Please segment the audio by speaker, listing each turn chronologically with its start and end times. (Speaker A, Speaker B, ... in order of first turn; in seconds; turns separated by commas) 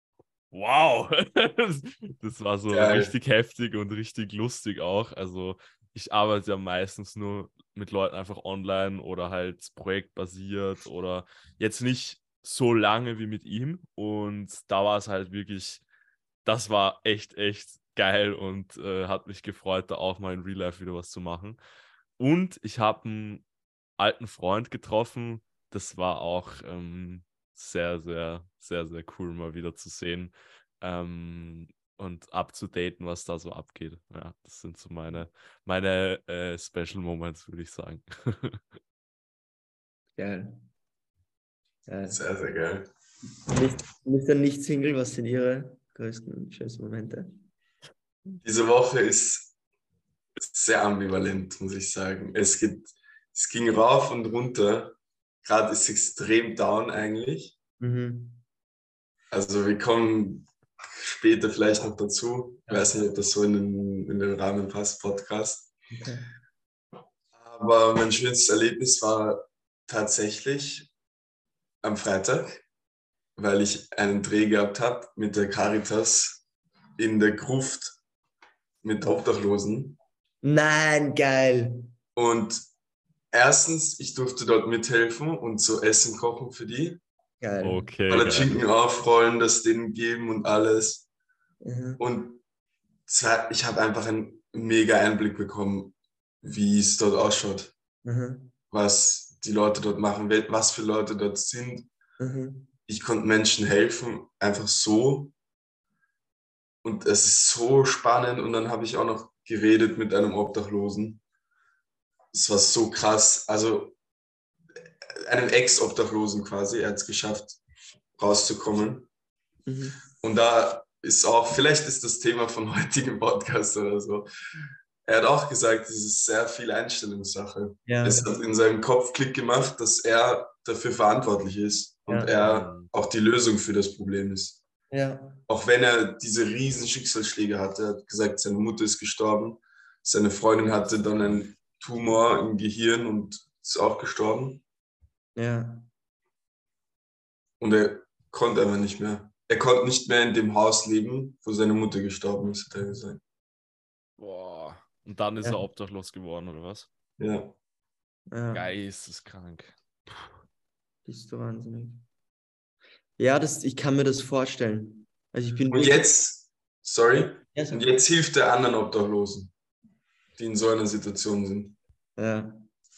Speaker A: 0.5-15.8, Speaker B: 2.7-3.1, Speaker A: 16.4-21.6, Speaker A: 22.2-23.4, Speaker A: 24.0-38.6, Speaker C: 40.2-40.6, Speaker C: 41.9-42.2, Speaker B: 42.1-42.9, Speaker C: 43.5-47.5, Speaker B: 48.4-49.5, Speaker B: 50.4-57.6, Speaker C: 57.8-58.4, Speaker B: 59.3-65.7, Speaker C: 62.7-63.0, Speaker C: 65.9-66.3, Speaker B: 67.4-70.9, Speaker B: 71.8-72.6, Speaker B: 73.4-76.4, Speaker B: 77.0-78.0, Speaker B: 78.8-80.0, Speaker C: 80.4-81.9, Speaker B: 82.2-82.6, Speaker B: 83.3-87.0, Speaker C: 87.4-87.9, Speaker A: 87.6-88.5, Speaker B: 88.1-91.0, Speaker C: 91.6-92.0, Speaker B: 92.0-92.4, Speaker B: 93.1-97.7, Speaker C: 98.0-98.5, Speaker B: 98.7-101.9, Speaker C: 102.2-102.7, Speaker B: 102.9-105.3, Speaker B: 106.8-111.2, Speaker B: 112.3-114.0, Speaker B: 115.2-117.6, Speaker B: 118.2-119.1, Speaker C: 119.7-120.0, Speaker B: 120.2-124.3, Speaker B: 125.0-134.6, Speaker C: 127.9-128.3, Speaker C: 132.1-132.3, Speaker A: 132.3-132.9, Speaker C: 134.9-135.4, Speaker B: 135.5-144.6, Speaker C: 145.4-145.9, Speaker B: 147.6-153.2, Speaker A: 154.2-156.9, Speaker B: 157.2-157.5, Speaker C: 158.3-158.7, Speaker A: 158.5-160.3, Speaker C: 161.1-162.0, Speaker C: 163.2-166.1, Speaker B: 165.7-169.5, Speaker C: 167.1-167.9, Speaker B: 170.4-171.8, Speaker C: 172.2-172.7